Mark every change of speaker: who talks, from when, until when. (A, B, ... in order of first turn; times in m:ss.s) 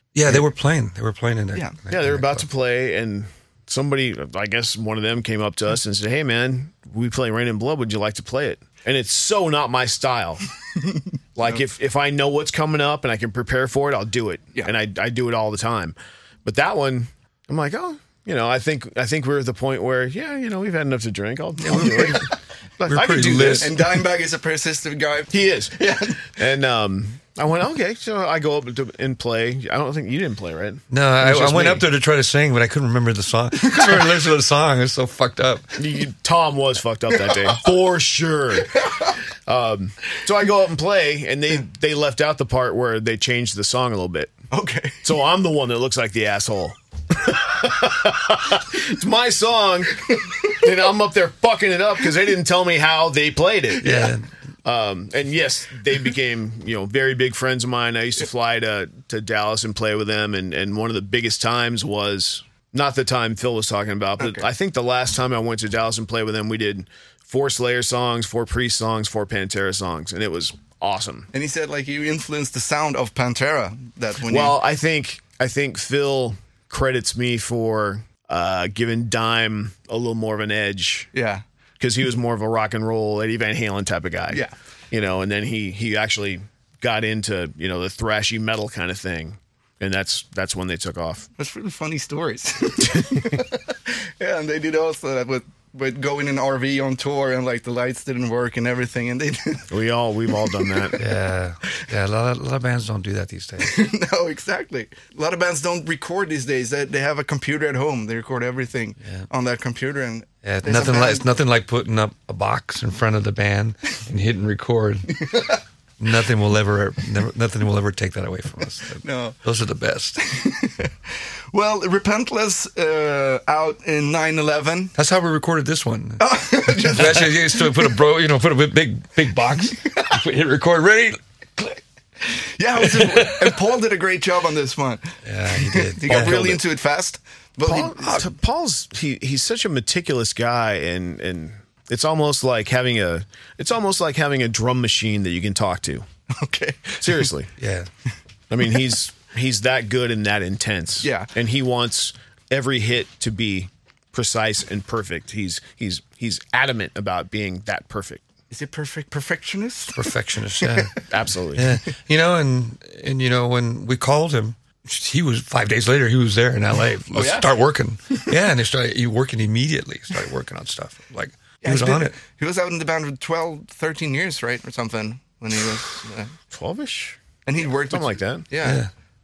0:00.2-0:02.5 A
0:01.9-0:10.4 B
0:11.4-0:22.3 B
0:21.6-0:22.3 C
0:21.6-0:23.7 A
0:22.9-0:23.8 B
0:23.6-0:26.3 C
0:25.3-0:31.9 B
0:30.9-0:35.8 A
0:33.7-0:34.0 C
0:35.8-0:44.3 B
0:37.2-0:37.6 C
0:38.7-0:39.2 C
0:44.5-0:45.0 C
0:45.0-1:11.3 B
0:53.8-0:54.2 C
0:53.8-0:54.2 A
1:04.2-1:04.5 C
1:11.3-1:14.6 C
1:14.3-1:21.1 B
1:21.1-1:21.4 C
1:21.8-1:31.3 B
1:31.4-1:39.7 C
1:39.7-1:41.0 B
1:40.5-1:40.9 C
1:41.0-1:43.7 A
1:43.6-1:51.3 C
1:50.4-1:55.2 A
1:55.1-1:55.6 C
1:56.0-2:00.2 A
1:59.0-1:59.4 C
2:00.2-2:00.9 C
2:01.5-2:05.0 C
2:05.0-2:11.8 A
2:06.2-2:07.9 C
2:09.9-2:10.1 C
2:12.3-2:18.3 C
2:12.8-2:13.6 A
2:15.3-2:16.4 A
2:16.1-2:16.6 B
2:17.7-2:26.0 B
2:26.3-2:27.3 C
2:27.0-2:27.5 B
2:27.6-2:27.9 A
2:28.5-2:38.2 B
2:31.0-2:31.3 C
2:38.5-2:40.0 C
2:39.9-2:41.0 A
2:40.6-2:41.1 C
2:41.1-2:41.7 B
2:41.5-2:52.2 A
2:47.2-2:47.5 C
2:51.6-2:56.3 C
2:56.5-2:57.2 B
2:57.5-2:58.8 C
2:57.9-2:58.5 B
2:58.6-2:58.9 A